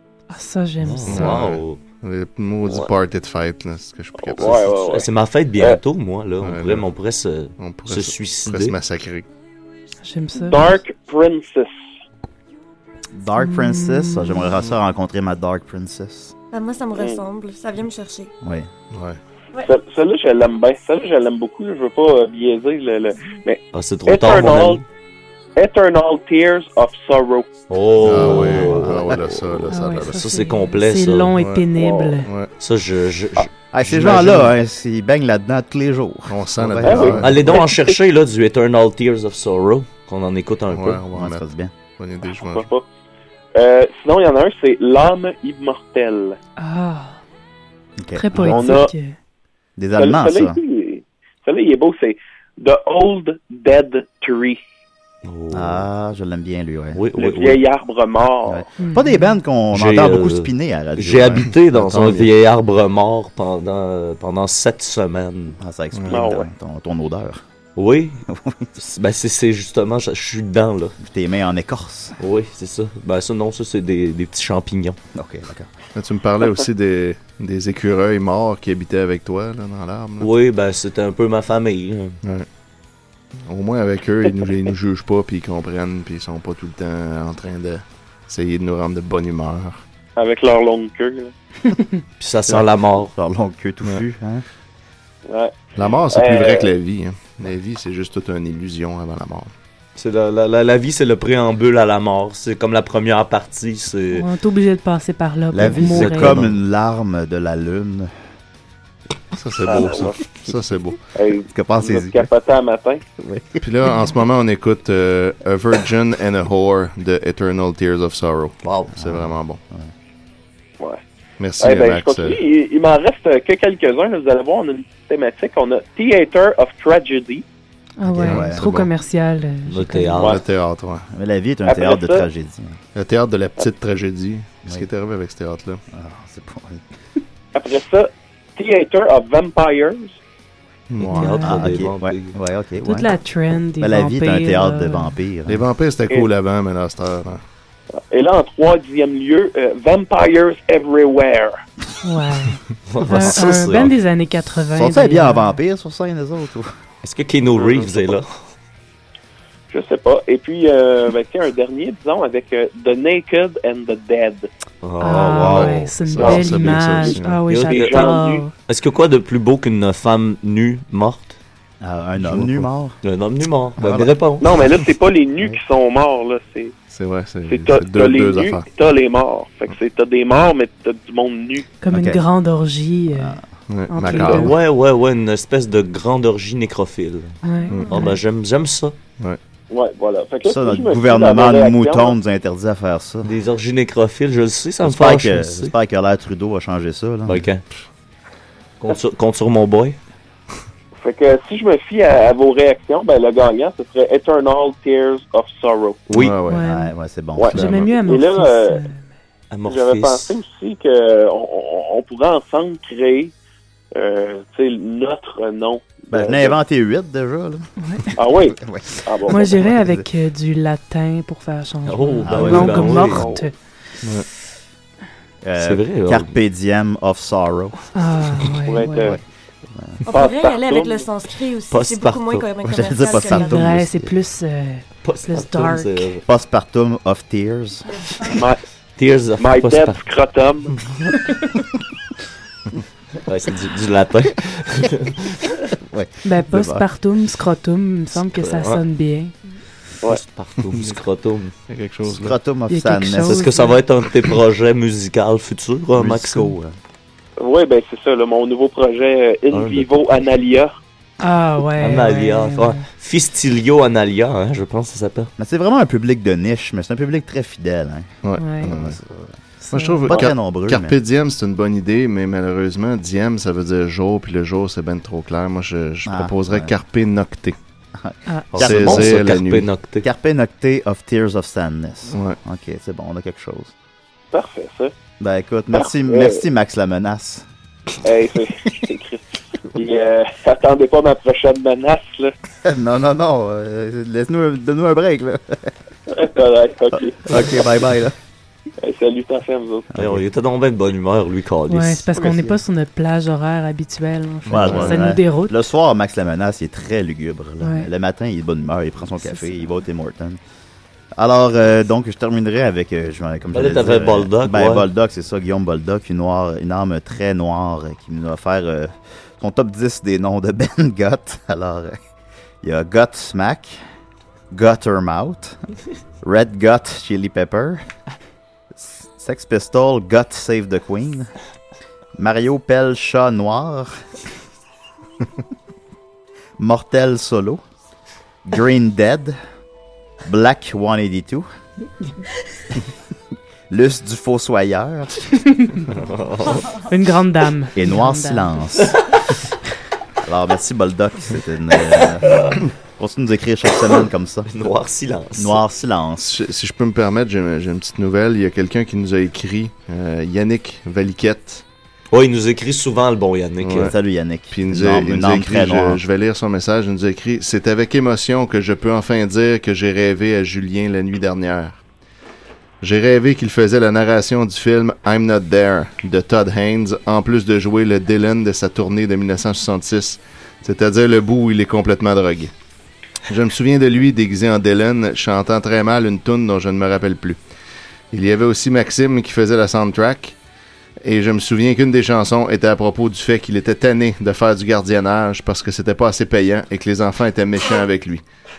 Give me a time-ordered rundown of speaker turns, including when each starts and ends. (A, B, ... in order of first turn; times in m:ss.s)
0:00.3-0:01.5 A
0:00.8-0:01.8 B
0:01.0-0:04.7 C
0:04.2-0:05.8 D
0:04.4-0:08.7 B
0:06.4-0:06.9 C
0:07.6-0:09.3 C
0:10.0-0:10.8 A
0:10.4-0:11.7 D
0:13.1-0:16.3 E
0:13.4-0:14.5 A
0:16.5-0:18.3 F
0:17.0-0:17.2 D
0:18.4-0:18.7 E
0:18.9-0:19.2 C
0:19.6-0:24.8 D
0:23.7-0:24.8 B
0:25.6-0:27.5 D
0:27.7-0:31.3 B
0:28.0-0:30.3 C
0:28.2-0:29.2 E
0:29.7-0:32.3 A
0:31.3-0:31.7 C
0:31.7-0:32.2 D
0:32.2-0:32.5 C
0:32.6-0:33.5 B
0:33.7-0:37.3 E
0:33.8-0:34.5 C
0:36.3-0:37.6 C
0:36.8-0:38.0 D
0:37.2-0:41.0 B
0:40.7-0:42.7 C
0:41.1-0:41.7 E
0:42.3-0:42.8 D
0:43.5-0:46.4 D
0:46.6-0:47.2 A
0:48.0-0:48.6 E
0:48.1-0:49.2 A
0:48.4-0:48.9 D
0:49.8-0:50.6 E
0:50.0-0:54.6 D
0:55.2-0:55.8 B
0:55.5-0:57.0 E
0:56.9-0:57.6 B
0:57.2-0:58.6 D
0:58.5-1:01.5 E
0:58.8-0:59.3 A
0:59.7-1:05.6 B
1:01.7-1:02.3 C
1:05.6-1:07.4 E
1:05.9-1:06.2 C
1:06.1-1:06.5 D
1:07.8-1:08.2 B
1:08.3-1:08.7 E
1:08.8-1:11.0 B
1:11.0-1:12.2 E
1:12.2-1:15.0 B
1:15.1-1:15.7 E
1:15.9-1:20.3 C
1:20.2-1:22.2 B
1:23.4-1:29.8 C
1:30.2-1:31.3 D
1:32.2-1:33.1 B
1:32.5-1:34.4 E
1:35.3-1:35.6 D
1:35.7-1:39.5 C
1:36.1-1:36.7 D
1:40.0-1:44.2 B
1:44.1-1:46.4 A
1:45.5-1:48.1 E
1:45.6-1:46.5 B
1:49.3-1:51.0 C
1:49.6-1:50.2 D
1:51.1-1:53.0 D
1:51.5-1:52.3 E
1:53.2-1:53.6 E
1:53.6-1:59.6 C
1:58.6-1:59.0 B
1:59.0-1:59.9 E
2:01.4-2:02.4 C
2:01.6-2:07.4 D
2:08.0-2:10.2 A
2:08.1-2:08.9 C
2:08.2-2:08.7 E
2:09.7-2:10.4 B
2:10.2-2:10.4 D
2:10.2-2:11.0 C
2:11.1-2:12.8 E
2:11.6-2:12.3 D
2:12.9-2:15.8 C
2:15.9-2:16.9 E
2:17.5-2:20.2 D
2:20.9-2:21.3 C
2:21.1-2:22.3 B
2:21.1-2:21.7 A
2:21.4-2:23.1 E
2:22.8-2:25.2 A
2:23.8-2:25.6 E
2:25.4-2:27.4 C
2:28.0-2:31.6 D
2:32.0-2:35.6 A
2:32.8-2:34.0 B
2:34.7-2:36.7 E
2:37.0-2:38.3 B
2:39.7-2:44.5 D
2:44.8-2:45.9 B
2:45.0-2:48.5 A
2:45.4-2:47.5 C
2:47.4-2:51.4 B
2:47.7-2:48.4 D
2:51.8-2:53.0 E
2:52.2-2:52.6 C
2:53.0-2:54.6 B
2:53.8-2:54.1 E
2:54.4-2:56.7 D
2:56.9-2:58.7 C
2:57.5-3:01.6 D
3:01.8-3:04.6 A
3:01.9-3:02.2 E
3:03.1-3:03.4 E
3:03.7-3:04.5 C
3:04.0-3:07.4 B
3:07.4-3:08.2 A
3:07.9-3:09.0 B
3:09.7-3:12.2 D
3:10.4-3:13.3 E
3:13.2-3:15.7 B
3:14.8-3:17.4 E
3:17.3-3:17.6 B
3:18.8-3:20.0 B
3:21.0-3:26.0 D
3:26.1-3:26.6 C
3:26.5-3:26.9 A
3:26.5-3:27.5 E
3:27.4-3:28.8 D
3:27.5-3:28.0 C
3:27.5-3:29.1 A
3:29.5-3:30.4 B
3:29.6-3:33.3 D
3:33.9-3:36.6 D
3:36.1-3:37.7 E
3:37.8-3:38.2 A
3:38.2-3:39.6 D
3:38.5-3:40.0 E
3:39.3-3:43.6 A
3:41.8-3:43.3 B
3:42.2-3:42.8 E
3:43.0-3:43.4 D
3:45.4-3:47.8 E
3:45.6-3:46.3 B
3:47.9-3:49.1 A
3:48.6-3:49.2 D
3:49.0-3:50.0 E
3:50.0-3:53.6 F
3:50.1-3:51.0 D
3:51.7-3:52.4 B
3:52.6-3:54.1 E
3:53.1-3:56.1 A
3:55.0-3:56.2 B
3:56.2-3:57.8 E
3:58.3-3:58.6 D
3:59.0-4:00.0 B
3:59.4-4:00.7 D
4:03.2-4:05.5 B
4:05.8-4:06.8 E
4:06.2-4:09.3 A
4:08.2-4:08.8 B
4:10.0-4:11.5 B
4:10.7-4:11.0 C
4:11.7-4:12.4 C
4:12.1-4:13.5 E
4:12.7-4:13.8 A
4:13.3-4:16.5 B
4:15.9-4:16.7 E
4:17.4-4:20.8 D
4:19.5-4:20.0 B
4:21.2-4:22.9 A
4:21.8-4:25.3 B
4:25.4-4:29.3 E
4:28.2-4:29.0 C
4:28.4-4:28.7 A
4:29.6-4:30.1 A
4:29.7-4:37.6 C
4:30.1-4:31.0 E
4:36.0-4:36.7 E
4:38.0-4:39.2 E
4:38.3-4:38.6 A
4:38.5-4:40.0 B
4:38.6-4:39.7 C
4:40.0-4:43.7 E
4:42.1-4:42.4 C
4:44.3-4:44.9 D
4:45.2-4:47.5 E
4:45.7-4:46.4 D
4:48.0-4:49.2 D
4:49.7-4:52.3 D
4:52.6-4:55.7 E
4:56.1-4:57.6 D
4:57.2-4:58.1 E
4:58.8-4:59.9 D
4:59.9-5:00.2 E
4:59.9-5:02.0 B
5:01.7-5:05.6 A
5:02.1-5:02.6 E
5:04.5-5:05.1 C
5:04.5-5:10.4 E
5:07.6-5:07.9 A
5:11.1-5:22.0 E
5:13.5-5:14.9 B
5:22.6-5:23.8 E
5:24.5-5:25.6 E
5:26.2-5:27.9 E
5:28.7-5:31.3 E
5:32.2-5:34.0 E
5:36.6-5:37.6 E
5:38.4-5:39.4 E
5:40.2-5:41.5 E
5:43.7-5:45.3 E
5:45.6-5:45.8 A
5:46.0-5:46.6 B
5:46.8-5:48.7 A
5:47.7-5:49.0 E
5:50.2-5:54.5 E
5:54.5-5:55.6 B
5:55.3-5:56.3 E
5:56.2-6:01.6 C
6:02.1-6:03.9 B
6:03.6-6:03.9 C
6:03.8-6:06.0 E
6:04.5-6:11.8 C
6:12.8-6:22.5 C
6:23.3-6:27.4 C
6:28.1-6:30.4 C
6:31.0-6:38.2 C